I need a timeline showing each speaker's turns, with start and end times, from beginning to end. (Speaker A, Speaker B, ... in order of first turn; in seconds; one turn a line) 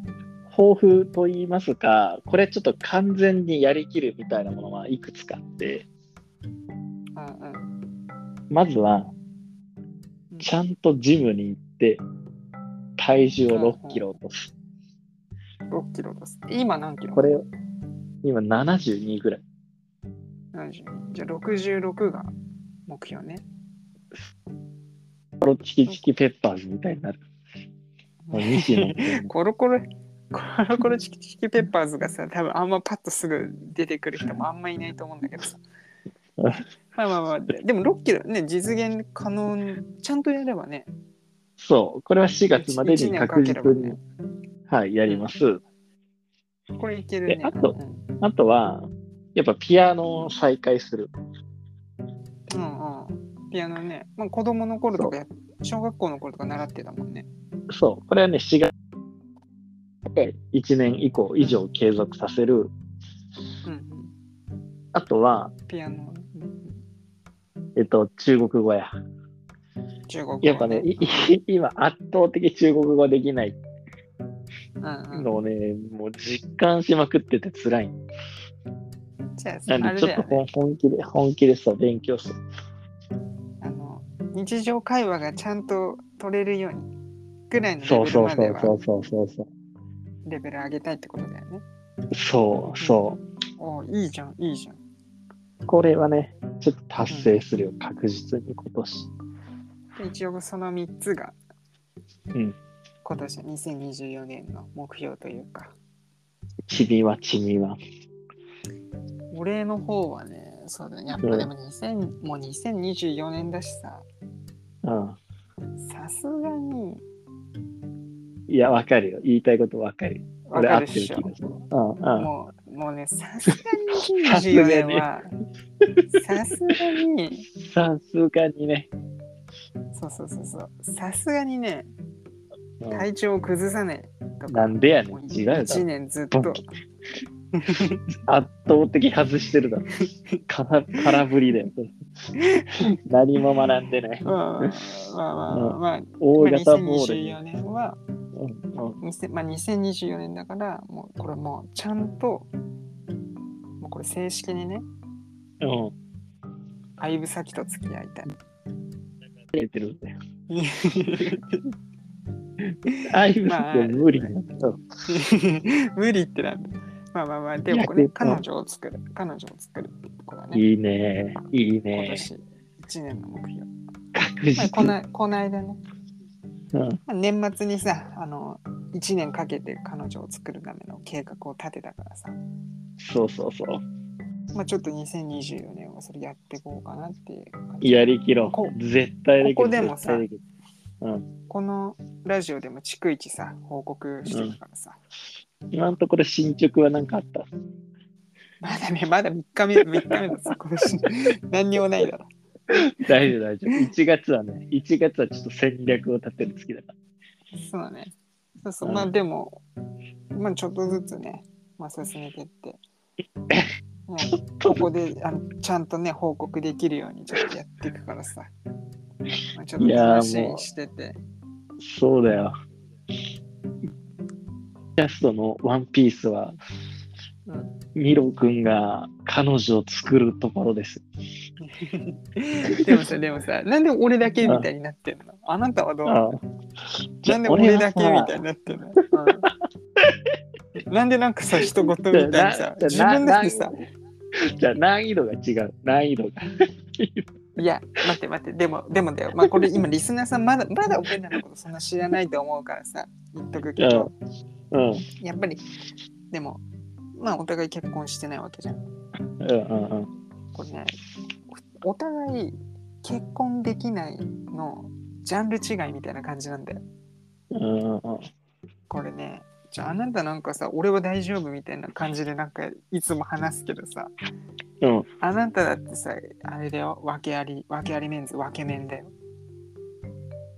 Speaker A: 0.5-5.8
Speaker B: 7.1-7.7
Speaker A: 8.5-9.1
Speaker A: 10.4-12.0
Speaker A: 13.0-14.5
Speaker B: 13.5-14.1
Speaker B: 15.7-17.3
Speaker A: 17.1-17.4
Speaker A: 18.2-19.4
Speaker B: 20.5-22.3
Speaker B: 22.9-23.4
Speaker A: 25.4-27.2
Speaker B: 28.2-35.6
Speaker A: 28.3-29.3
Speaker B: 36.9-40.9
Speaker A: 41.6-44.0
Speaker B: 42.5-44.0
Speaker A: 44.7-45.6
Speaker B: 46.8-48.0
Speaker A: 47.3-51.1
Speaker B: 52.5-57.3
Speaker A: 57.7-58.7
Speaker A: 60.1-62.7
Speaker B: 63.6-64.1
Speaker A: 64.9-65.5
Speaker B: 65.7-66.8
Speaker A: 67.8-68.9
Speaker B: 70.1-71.3
Speaker A: 70.4-73.6
Speaker B: 74.8-75.3
Speaker A: 75.1-77.9
Speaker B: 79.4-80.4
Speaker A: 79.7-82.4
Speaker B: 83.6-86.9
Speaker B: 87.5-88.7
Speaker A: 87.8-89.5
Speaker B: 90.2-91.6
Speaker A: 92.1-93.2
Speaker B: 92.8-93.0
Speaker B: 93.6-94.8
Speaker A: 95.7-99.1
Speaker B: 97.1-97.3
Speaker B: 100.0-101.3
Speaker B: 103.0-105.7
Speaker A: 106.7-107.8
Speaker B: 109.3-114.0
Speaker A: 111.2-111.5
Speaker A: 114.8-115.2
Speaker B: 115.8-117.0
Speaker A: 118.5-122.3
Speaker B: 120.5-121.3
Speaker B: 122.2-125.3
Speaker A: 124.2-125.1
Speaker B: 126.2-127.5
Speaker A: 127.5-128.9
Speaker B: 129.9-131.9
Speaker A: 132.8-133.1
Speaker B: 132.9-136.6
Speaker A: 134.5-136.6
Speaker B: 137.6-138.0
Speaker A: 138.3-139.9
Speaker A: 140.5-141.9
Speaker B: 142.4-142.7
Speaker A: 143.1-144.7
Speaker B: 144.2-148.0
Speaker A: 145.5-147.4
Speaker A: 148.3-149.0
Speaker B: 149.0-152.5
Speaker B: 153.8-154.8
Speaker A: 155.6-155.9
Speaker B: 157.0-158.3
Speaker A: 159.5-160.1
Speaker B: 160.5-161.6
Speaker B: 162.9-164.3
Speaker A: 163.0-164.8
Speaker B: 165.1-170.6
Speaker A: 167.7-168.4
Speaker A: 170.5-172.3
Speaker B: 171.9-173.7
Speaker A: 174.1-174.9
Speaker B: 174.5-175.8
Speaker A: 176.7-177.0
Speaker B: 177.1-182.4
Speaker A: 183.0-183.8
Speaker B: 184.5-188.8
Speaker A: 187.8-190.4
Speaker B: 189.4-190.2
Speaker B: 191.5-195.0
Speaker A: 194.3-194.6
Speaker A: 195.7-197.5
Speaker B: 198.6-202.8
Speaker A: 202.7-206.9
Speaker B: 207.5-209.6
Speaker A: 208.8-209.1
Speaker B: 210.3-212.8
Speaker B: 214.1-218.5
Speaker A: 214.3-214.8
Speaker B: 219.5-221.2
Speaker A: 219.8-220.6
Speaker A: 221.8-222.5
Speaker A: 225.0-226.6
Speaker B: 227.5-227.7
Speaker A: 227.9-231.0
Speaker B: 231.6-236.2
Speaker A: 236.0-236.4
Speaker A: 237.2-238.4
Speaker B: 237.2-239.5
Speaker B: 240.8-243.7
Speaker A: 242.1-243.7
Speaker A: 244.4-246.4
Speaker A: 247.0-247.3
Speaker B: 247.6-254.1
Speaker A: 253.8-254.1
Speaker A: 254.7-255.0
Speaker B: 255.2-255.6
Speaker B: 256.3-256.6
Speaker B: 257.1-258.8
Speaker A: 259.4-260.1
Speaker B: 260.5-260.9
Speaker B: 261.5-266.8
Speaker A: 267.5-268.2
Speaker B: 268.9-274.1
Speaker B: 275.2-279.1